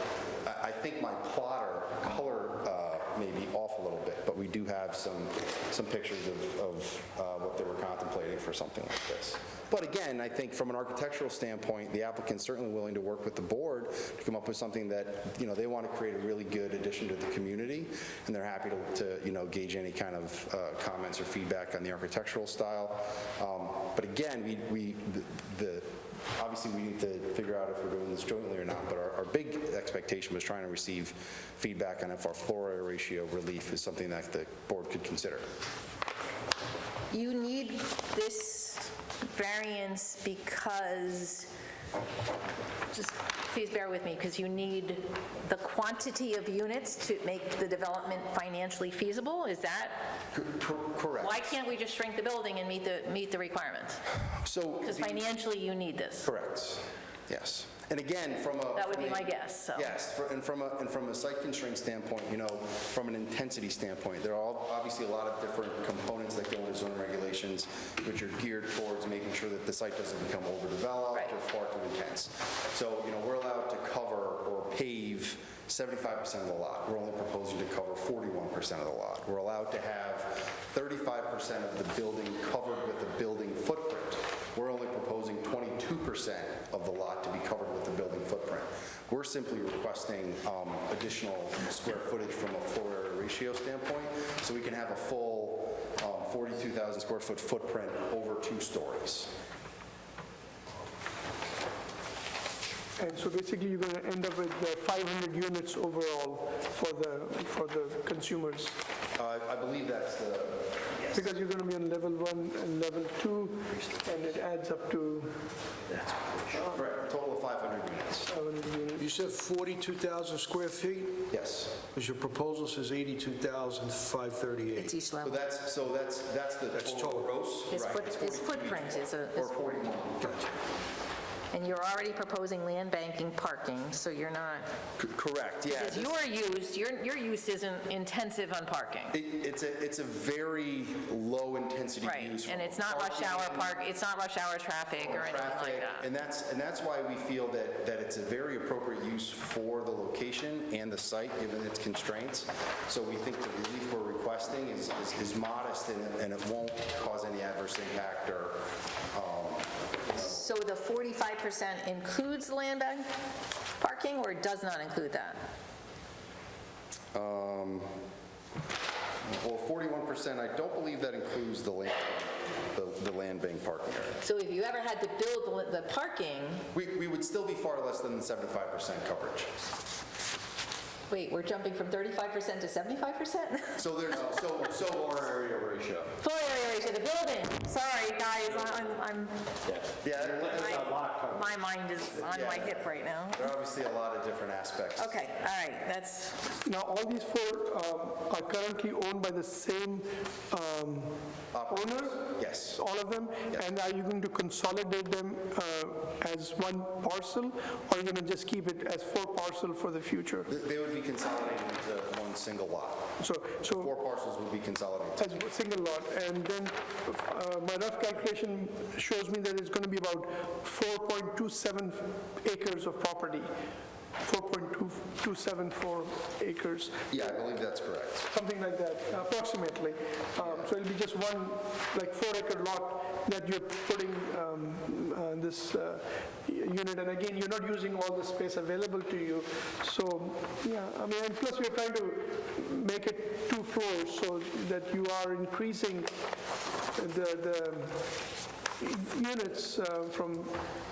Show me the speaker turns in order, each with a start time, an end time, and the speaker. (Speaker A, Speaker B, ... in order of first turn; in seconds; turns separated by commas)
Speaker A: 0.4-35.5, Speaker B: 37.1-41.5, Speaker B: 42.9-50.1, Speaker A: 50.3-51.5, Speaker B: 51.2-54.0, Speaker A: 54.2-55.3, Speaker B: 54.8-56.3, Speaker A: 56.2-99.3, Speaker B: 58.7-59.9, Speaker C: 103.0-108.8, Speaker A: 109.2-111.2, Speaker C: 111.1-115.4, Speaker D: 116.1-116.4, Speaker A: 116.6-118.3, Speaker C: 118.3-119.1, Speaker D: 119.0-121.3, Speaker A: 121.3-121.8, Speaker D: 121.9-124.9, Speaker B: 124.8-125.4, Speaker A: 125.2-130.5, Speaker D: 126.7-127.7, Speaker B: 127.7-129.6, Speaker B: 131.5-134.7, Speaker A: 135.0-136.2, Speaker B: 135.7-139.2, Speaker A: 139.1-143.8, Speaker B: 142.0-146.1, Speaker A: 145.0-160.4, Speaker B: 160.1-163.1, Speaker B: 163.8-165.4, Speaker A: 167.1-167.9, Speaker A: 169.2-174.2, Speaker B: 174.2-176.7, Speaker A: 176.7-179.5, Speaker B: 181.1-183.8, Speaker A: 183.8-185.6, Speaker D: 184.8-186.1, Speaker B: 186.2-189.4, Speaker D: 189.7-191.5, Speaker A: 190.0-190.9, Speaker B: 190.5-193.5, Speaker A: 192.2-195.2, Speaker B: 195.0-196.5, Speaker C: 196.6-210.5, Speaker A: 201.5-202.8, Speaker A: 210.5-213.1, Speaker C: 213.2-213.9, Speaker A: 213.7-215.3, Speaker C: 215.2-223.5, Speaker C: 224.2-227.2, Speaker A: 227.1-228.3, Speaker C: 228.3-246.1, Speaker C: 246.9-248.2, Speaker C: 248.8-250.6